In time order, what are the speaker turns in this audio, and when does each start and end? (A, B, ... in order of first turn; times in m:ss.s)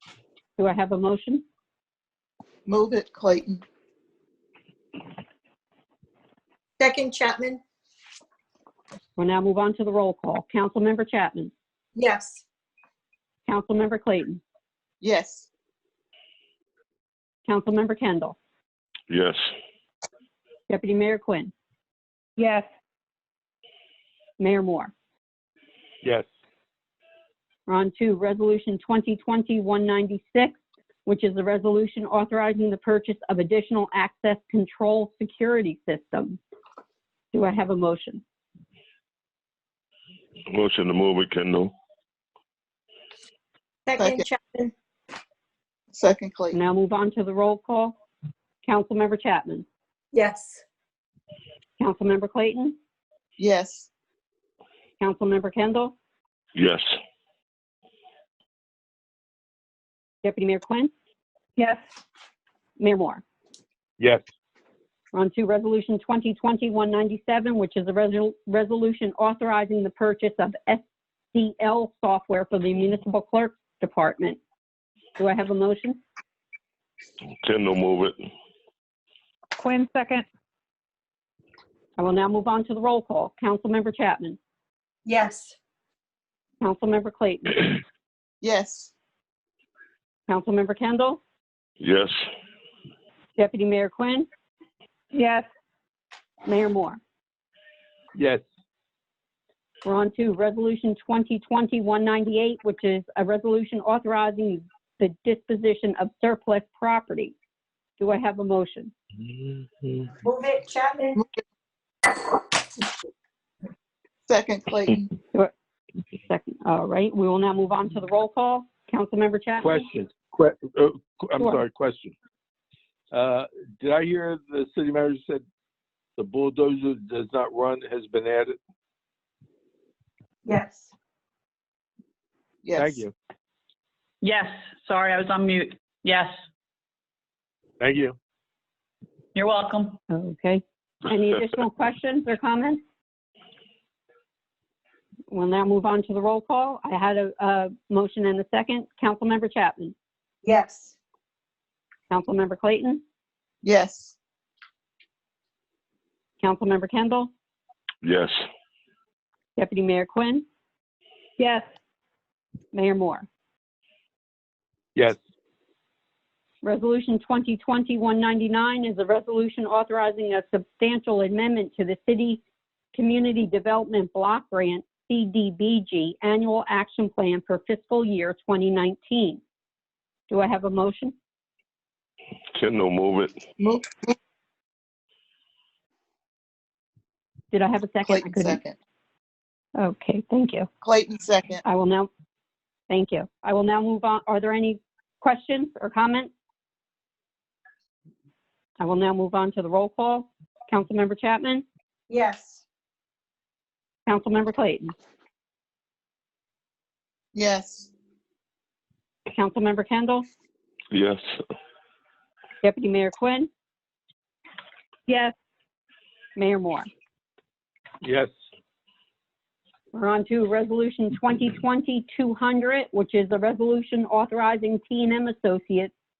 0:00.6-0:01.4 A
0:02.7-0:03.6 B
0:06.8-0:07.6 C
0:09.2-0:11.5 A
0:11.9-0:12.4 C
0:13.4-0:14.4 A
0:15.0-0:15.5 B
0:17.4-0:18.4 A
0:19.1-0:19.4 D
0:20.7-0:21.5 A
0:22.4-0:22.6 E
0:24.4-0:24.9 A
0:27.7-0:36.4 A
0:37.3-0:38.2 A
0:40.5-0:41.7 D
0:43.8-0:44.7 C
0:44.0-0:44.3 B
0:45.9-0:46.6 B
0:46.5-0:48.0 A
0:48.6-0:49.6 A
0:50.1-0:50.6 C
0:51.8-0:52.8 A
0:53.4-0:53.9 B
0:55.0-0:55.9 A
0:56.5-0:56.8 D
1:00.2-1:00.9 A
1:01.6-1:01.8 E
1:02.8-1:03.2 A
1:04.0-1:04.2 F
1:05.1-1:14.4 A
1:15.2-1:16.0 A
1:17.3-1:18.2 D
1:19.6-1:20.2 E
1:22.0-1:24.4 A
1:25.0-1:25.6 C
1:26.6-1:27.8 A
1:28.4-1:28.9 B
1:30.3-1:31.2 A
1:31.8-1:32.1 D
1:33.4-1:34.3 A
1:35.1-1:35.4 E
1:36.4-1:37.0 A
1:38.1-1:38.4 F
1:39.8-1:47.3 A
1:48.0-1:48.9 A
1:49.6-1:50.0 F
1:50.2-1:51.2 C
1:54.3-1:55.1 B
1:56.2-1:59.8 A
1:59.6-2:02.1 F
2:03.1-2:05.4 F
2:06.2-2:08.6 F
2:10.4-2:10.9 C
2:12.6-2:13.0 B
2:12.7-2:13.1 F
2:14.2-2:16.3 G
2:17.8-2:18.2 F
2:19.3-2:20.0 G
2:20.1-2:22.8 A
2:25.3-2:29.9 A
2:30.4-2:30.9 C
2:32.1-2:33.0 A
2:33.6-2:34.2 B
2:36.4-2:37.3 A
2:38.0-2:38.3 D
2:39.6-2:40.4 A
2:41.4-2:41.7 E
2:42.7-2:43.3 A
2:46.6-2:52.4 A
2:52.9-2:59.4 A
3:00.3-3:01.1 A
3:02.5-3:03.5 D
3:03.6-3:04.1 B
3:07.5-3:08.6 A
3:08.0-3:08.8 B
3:09.8-3:10.7 A
3:10.8-3:11.6 B
3:11.6-3:12.1 A
3:12.9-3:16.3 A
3:18.8-3:21.6 A
3:22.1-3:22.6 C
3:24.0-3:24.9 A
3:27.3-3:27.9 B
3:29.3-3:30.2 A
3:30.9-3:31.2 D
3:32.6-3:33.5 A
3:35.1-3:35.3 E
3:36.4-3:36.9 A
3:38.0-3:38.3 F
3:39.9-3:45.9 A